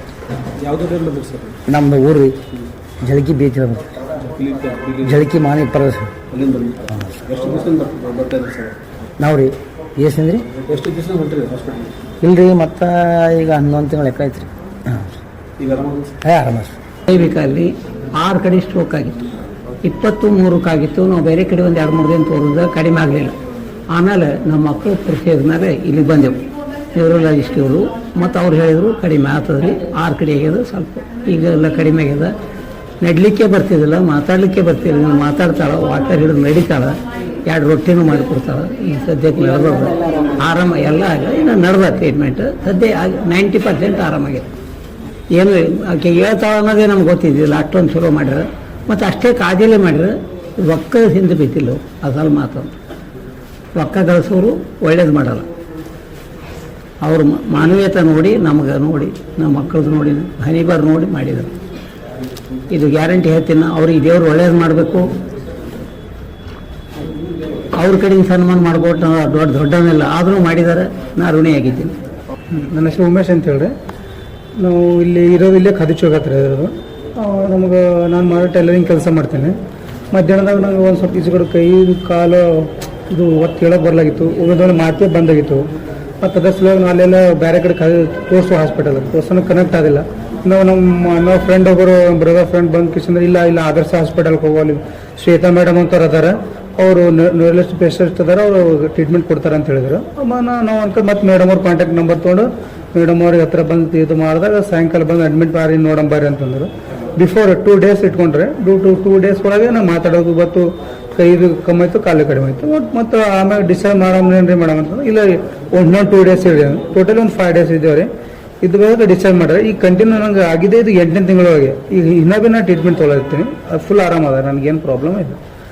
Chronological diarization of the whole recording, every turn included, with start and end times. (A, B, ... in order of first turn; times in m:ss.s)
0:00.6-0:01.6 A
0:01.7-0:02.4 B
0:03.0-0:04.0 B
0:04.2-0:05.2 A
0:05.0-0:06.2 B
0:06.3-0:08.8 A
0:06.9-0:07.2 B
0:09.2-0:10.4 B
0:10.6-0:11.9 A
0:12.2-0:15.1 B
0:15.6-0:16.1 A
0:16.2-0:16.8 B
0:17.1-0:19.2 C
0:19.8-0:23.4 C
0:23.9-0:26.4 C
0:27.0-0:32.3 C
0:33.0-0:44.5 C
0:45.3-0:52.7 C
0:53.8-0:55.5 C
0:57.0-1:01.5 C
1:02.7-1:05.1 C
1:07.8-1:11.9 C
1:12.5-1:13.7 D
1:14.6-1:19.6 D
1:20.1-1:25.7 D
1:26.2-1:58.1 D
1:58.6-2:05.4 D